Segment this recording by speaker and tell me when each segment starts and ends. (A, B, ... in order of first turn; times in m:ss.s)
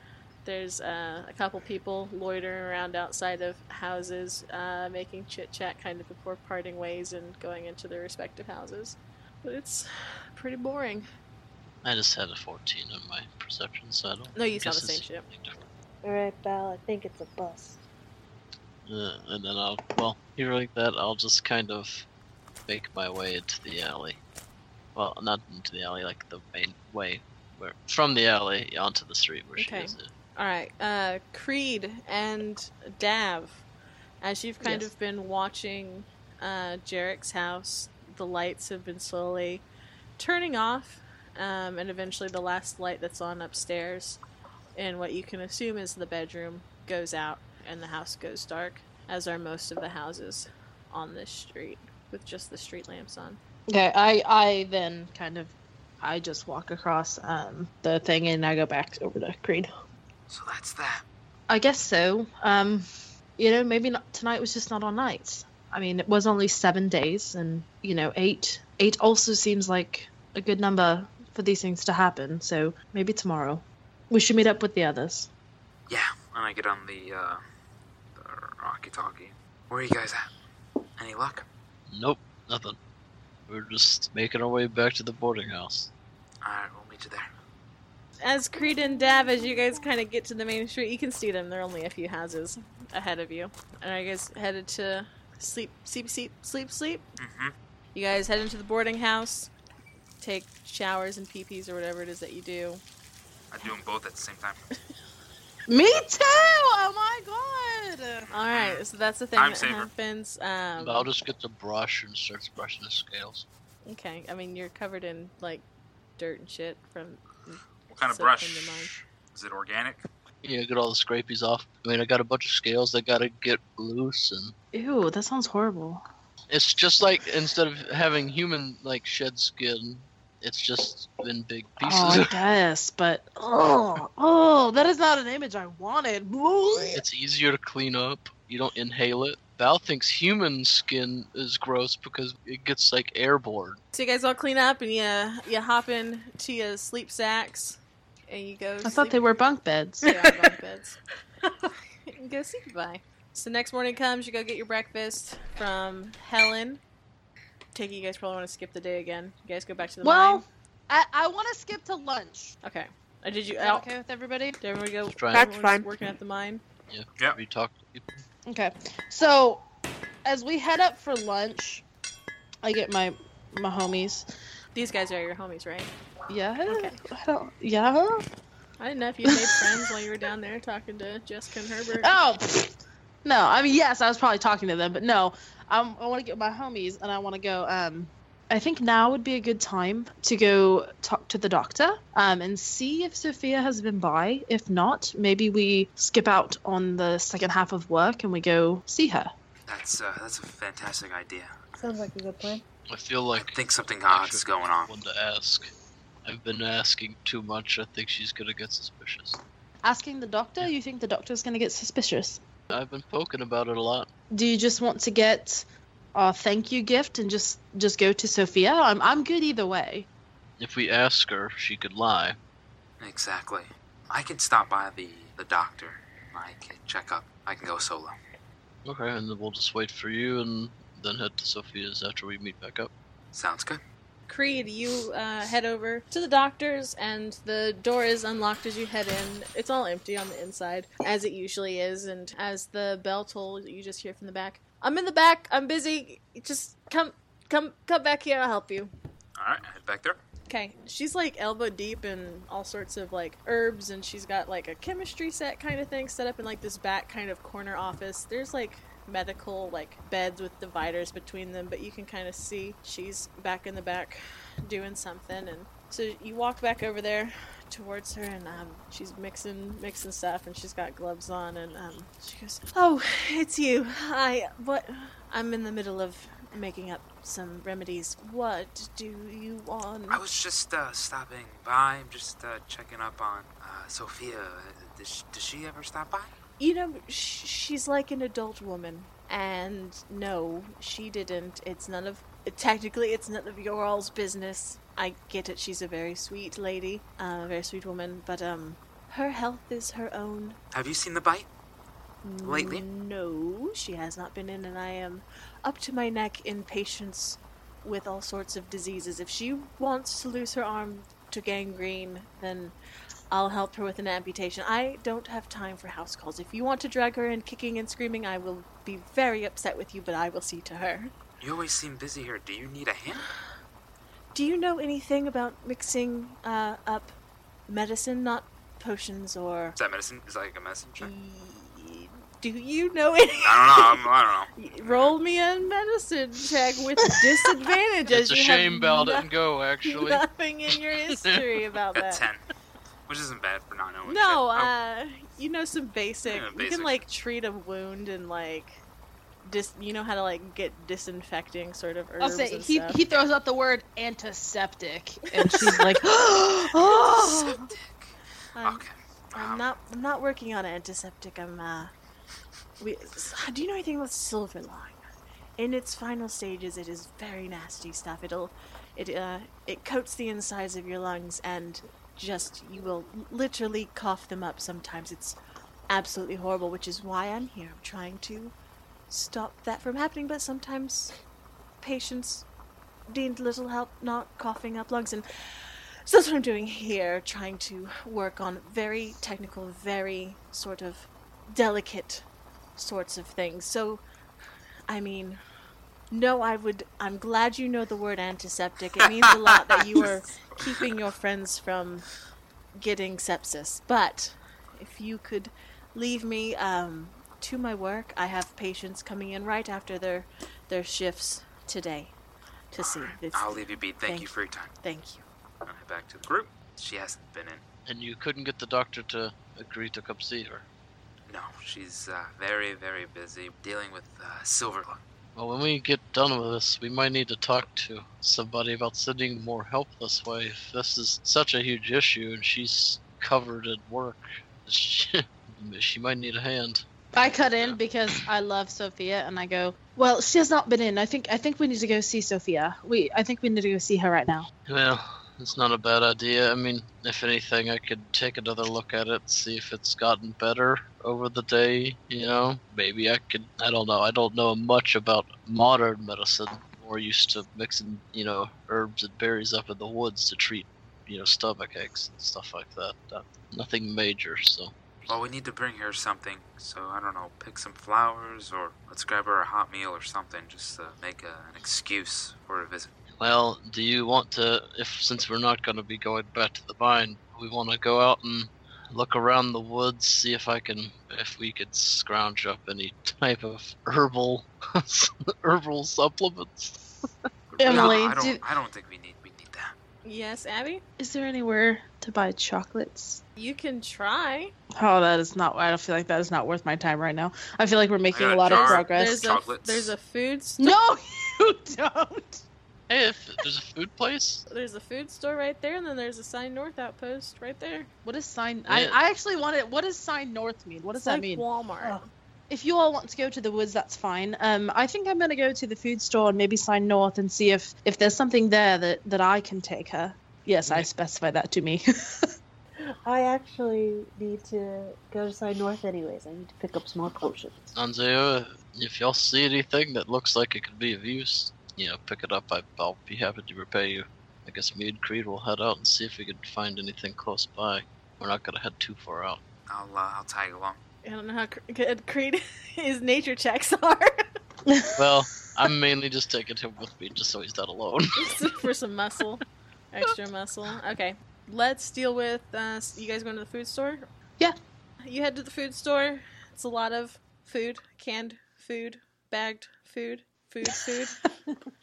0:00.4-0:11.1 A
0:11.8-0:15.6 B
0:14.4-0:15.2 A
0:16.0-0:17.8 C
0:18.9-0:22.1 B
0:22.7-0:24.2 B
0:25.0-0:30.1 B
0:29.6-0:33.7 A
0:34.2-0:39.6 A
0:40.2-0:44.2 A
0:44.8-0:53.4 A
0:53.7-0:59.7 D
1:00.3-1:01.0 E
1:01.5-1:02.9 D
1:03.4-1:15.3 D
1:15.9-1:17.4 E
1:18.2-1:20.3 E
1:21.0-1:21.5 E
1:21.9-1:22.8 B
1:23.5-1:25.9 B
1:26.4-1:27.3 E
1:28.2-1:37.0 A
1:28.6-1:29.9 C
1:37.2-1:37.5 E
1:37.9-1:39.5 A
1:40.2-1:42.8 A
1:43.5-1:44.7 E
1:45.7-1:48.3 D
1:48.3-1:48.8 E
1:48.3-1:51.1 A
1:49.4-1:49.9 E
1:50.8-1:53.4 B
1:53.9-1:55.6 A
1:56.2-1:58.9 A
1:57.9-2:00.0 E
2:00.4-2:04.5 B
2:04.7-2:06.0 D
2:06.5-2:12.4 B
2:11.8-2:17.0 D
2:16.9-2:23.8 B
2:23.9-2:29.2 A
2:28.8-2:30.2 D
2:30.0-2:31.0 A
2:32.1-2:36.8 A
2:37.7-2:40.5 A
2:40.0-2:42.6 D
2:42.6-2:43.9 A
2:43.6-2:44.6 D
2:44.6-2:46.6 A
2:45.1-2:45.5 B
2:45.3-2:45.9 C
2:46.9-2:48.2 B
2:48.5-2:49.6 D
2:50.2-2:51.8 D
2:52.6-2:54.3 D
2:54.8-2:55.9 A
2:56.3-2:58.2 D
2:56.7-2:57.0 A
2:58.8-3:02.2 A
2:59.3-2:59.8 D
3:02.0-3:19.3 D
3:19.7-3:21.5 E
3:21.8-3:22.6 C
3:22.9-3:25.7 B
3:23.4-3:24.9 E
3:26.2-3:29.4 B
3:29.8-3:32.4 D
3:32.7-3:34.1 B
3:34.3-3:40.1 D
3:40.6-3:42.4 B
3:43.0-3:48.2 E
3:48.8-3:52.9 B
3:53.3-3:53.8 E
3:54.3-4:08.9 A
4:09.4-4:10.2 E
4:10.5-4:40.2 A
4:40.1-4:46.4 E
4:46.6-5:00.6 A
5:00.7-5:01.5 E
5:02.2-5:12.7 A
5:02.4-5:02.8 E
5:13.3-5:21.1 A
5:21.4-5:23.3 E
5:24.3-5:27.2 A
5:27.7-5:29.8 A
5:29.8-5:31.1 E
5:31.0-5:34.0 A
5:33.4-5:35.2 E
5:34.6-5:39.3 A
5:38.1-5:40.3 B
5:39.8-5:42.3 A
5:42.0-5:42.4 E
5:43.1-5:44.7 E
5:44.1-5:48.8 A
5:46.3-5:47.0 E
5:49.4-5:53.0 A
5:52.2-5:57.7 D
5:55.4-5:55.9 A
5:56.8-5:59.7 E
5:58.6-6:01.9 A
6:02.8-6:05.0 A
6:05.6-6:15.4 A
6:15.9-6:18.6 A
6:19.1-6:21.2 A
6:21.8-6:22.5 A
6:23.1-6:32.2 A
6:32.8-6:34.0 A
6:34.9-6:35.4 A
6:36.1-6:42.1 A
6:42.8-6:52.1 A
6:52.7-6:55.3 A
6:52.8-6:54.7 E
6:55.7-6:57.6 E
6:57.9-7:00.7 B
7:01.3-7:05.0 E
7:05.4-7:16.8 B
7:17.2-7:24.5 D
7:24.7-7:44.8 B
7:45.1-7:52.9 E
7:53.1-8:07.1 B
8:07.5-8:09.7 E
8:07.6-8:08.4 D
8:07.7-8:08.0 B
8:10.0-8:10.8 A
8:11.0-8:13.2 D
8:13.4-8:14.5 A
8:14.8-8:19.2 D
8:18.1-8:19.9 E
8:18.5-8:18.8 B
8:18.9-8:20.8 A
8:20.6-8:22.4 D
8:22.9-8:24.4 B
8:24.5-8:27.9 A
8:28.0-8:31.4 D
8:28.7-8:29.0 B
8:31.0-8:32.0 A
8:32.5-8:42.3 D
8:43.0-8:47.6 C
8:47.8-8:59.4 B
8:59.7-9:00.8 E
9:01.0-9:04.2 A
9:04.7-9:05.4 D
9:05.0-9:08.4 B
9:08.2-9:14.1 A
9:15.0-9:21.2 A